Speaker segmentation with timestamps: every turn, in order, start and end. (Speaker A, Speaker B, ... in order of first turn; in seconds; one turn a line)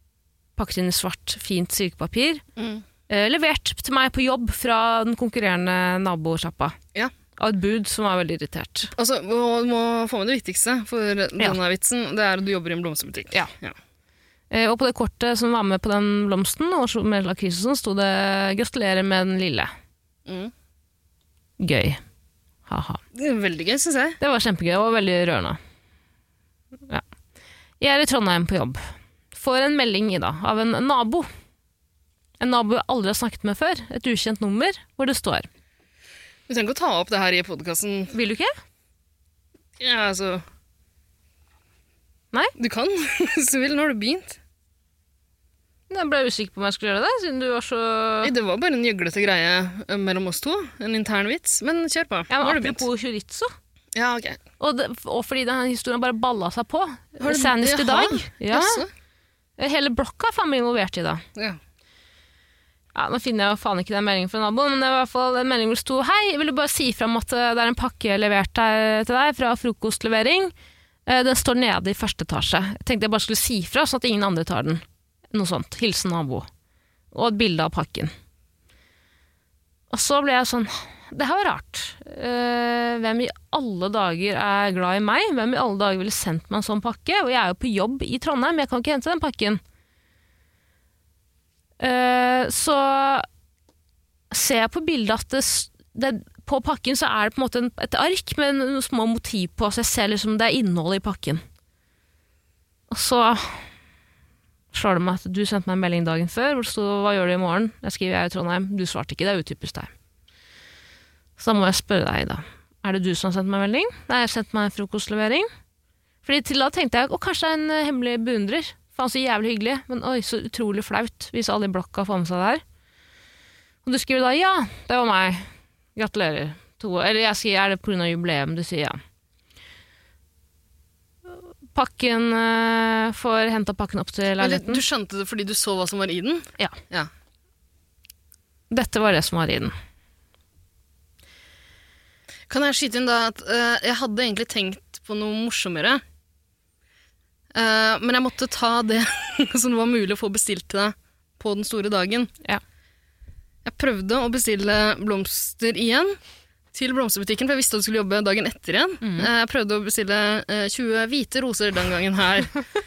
Speaker A: 0.6-2.4
Speaker B: 2.6-2.8
Speaker A: 3.1-6.8
Speaker A: 7.4-8.9
Speaker B: 8.9-13.7
Speaker A: 14.5-19.7
Speaker B: 20.2-20.5
Speaker A: 21.6-22.0
Speaker A: 22.7-23.0
Speaker B: 23.1-24.2
Speaker A: 24.2-25.6
Speaker A: 27.8-28.8
Speaker A: 29.3-31.3
Speaker A: 32.4-35.5
Speaker B: 36.5-38.1
Speaker A: 38.1-38.5
Speaker B: 39.8-40.4
Speaker B: 42.6-44.4
Speaker A: 45.9-48.3
Speaker B: 48.2-52.8
Speaker A: 52.3-53.5
Speaker B: 53.9-54.4
Speaker A: 54.6-58.8
Speaker B: 57.2-58.9
Speaker A: 59.6-61.2
Speaker A: 62.9-70.5
Speaker A: 71.1-76.5
Speaker A: 77.1-78.1
Speaker A: 79.9-89.6
Speaker A: 91.8-93.3
Speaker A: 94.3-101.4
Speaker A: 102.9-103.7
Speaker A: 104.7-109.9
Speaker A: 111.4-115.5
Speaker A: 116.2-122.6
Speaker A: 123.8-129.0
Speaker A: 131.3-134.8
Speaker B: 134.4-137.1
Speaker A: 138.7-139.7
Speaker B: 142.5-146.0
Speaker B: 147.5-152.3
Speaker B: 153.6-156.2
Speaker B: 156.7-162.5
Speaker A: 159.0-159.3